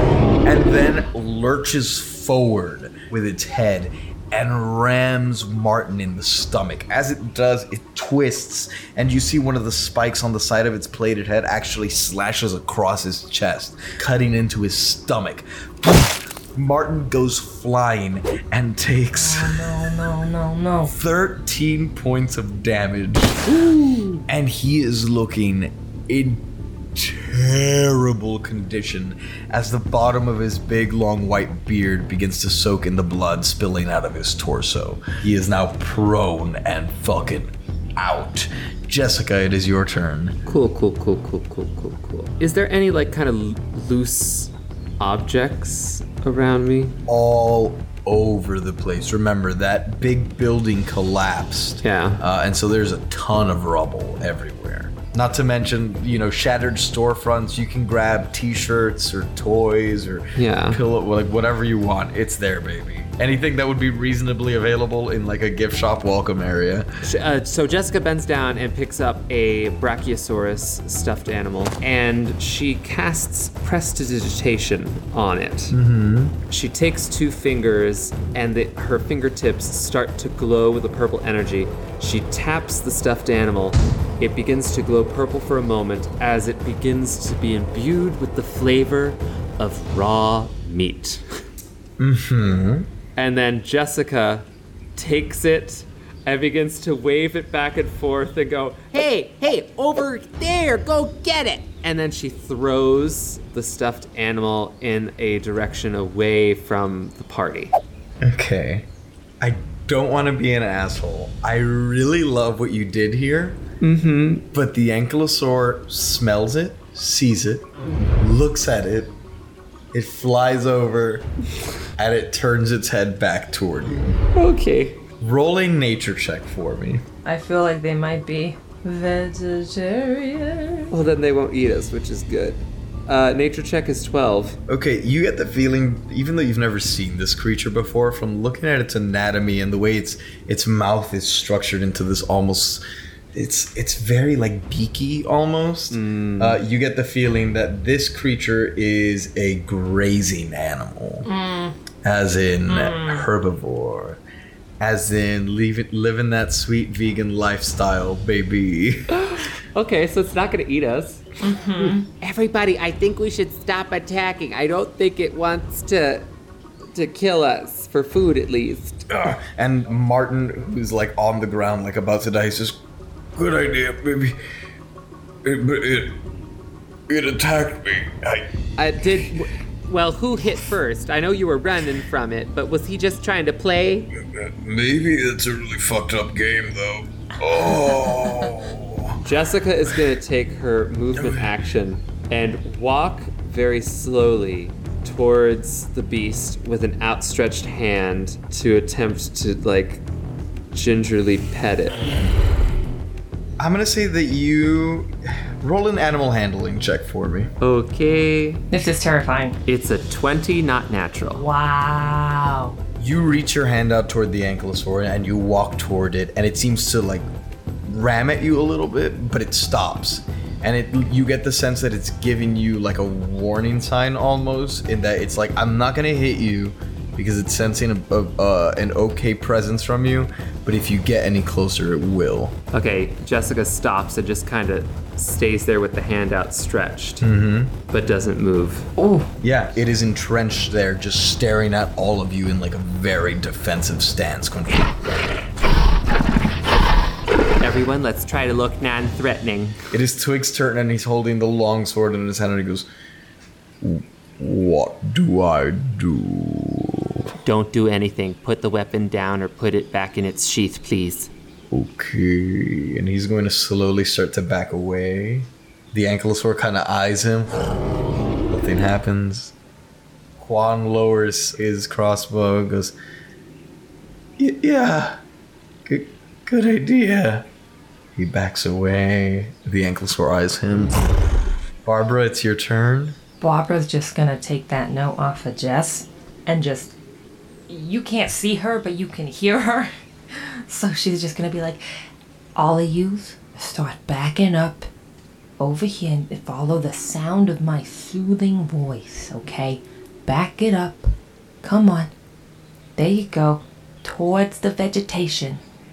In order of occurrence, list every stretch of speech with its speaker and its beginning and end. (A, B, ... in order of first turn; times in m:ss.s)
0:00.4-0:20.0 A
0:19.2-0:20.9 B
0:20.9-0:23.4 A
0:23.5-0:24.2 C
0:24.3-0:40.4 A
0:40.5-0:47.0 C
0:47.1-1:06.9 A
0:51.8-0:52.2 C
1:00.4-1:00.8 C
1:07.0-1:15.7 C
1:15.7-1:16.4 A
1:16.5-1:31.2 C
1:32.0-1:32.9 A
1:33.2-1:47.7 C
1:48.2-1:48.9 A
1:49.4-1:53.6 A
1:53.8-1:54.4 C
1:54.5-1:59.2 A
1:59.9-2:01.3 A
2:02.0-2:04.2 A
2:04.4-2:05.0 C
2:05.2-2:07.0 A
2:07.2-2:10.9 B
2:10.9-2:14.6 C
2:14.7-2:22.8 A
2:23.3-2:31.3 A
2:25.9-2:26.6 C
2:31.2-2:31.8 B
2:32.0-2:34.2 A
2:32.7-2:33.3 B
2:34.8-2:39.0 A
2:39.2-2:41.2 C
2:41.4-2:42.0 B
2:41.8-2:46.3 C
2:46.9-2:49.1 C
2:49.1-2:52.8 A
2:53.4-2:54.4 A
2:55.4-2:56.2 A
2:57.1-2:58.5 A
2:58.8-3:04.1 C
3:04.3-3:09.2 A
3:09.2-3:20.0 C
3:11.1-3:11.5 A
3:20.7-3:22.1 C
3:23.6-3:27.5 A
3:27.6-3:28.6 C
3:28.7-3:29.6 B
3:29.7-3:31.4 C
3:31.4-3:32.8 B
3:33.0-3:37.3 A
3:37.9-3:52.6 A
3:52.7-3:57.2 C
3:57.2-3:57.7 A
3:57.9-3:58.9 C
3:59.0-3:59.3 B
3:59.4-4:05.1 A
4:07.6-4:09.8 C
4:09.9-4:12.9 A
4:13.8-4:17.3 A
4:17.4-4:21.3 C
4:21.7-4:27.6 A
4:28.5-4:29.6 A
4:30.4-4:32.9 A
4:34.4-4:35.2 A
4:35.9-4:37.5 A
4:38.2-4:41.0 A
4:41.8-4:43.2 A
4:43.4-4:47.0 B
4:47.7-4:51.8 B
4:52.6-4:54.9 B
4:55.6-5:01.1 B
5:01.6-5:02.1 B
5:03.0-5:05.6 B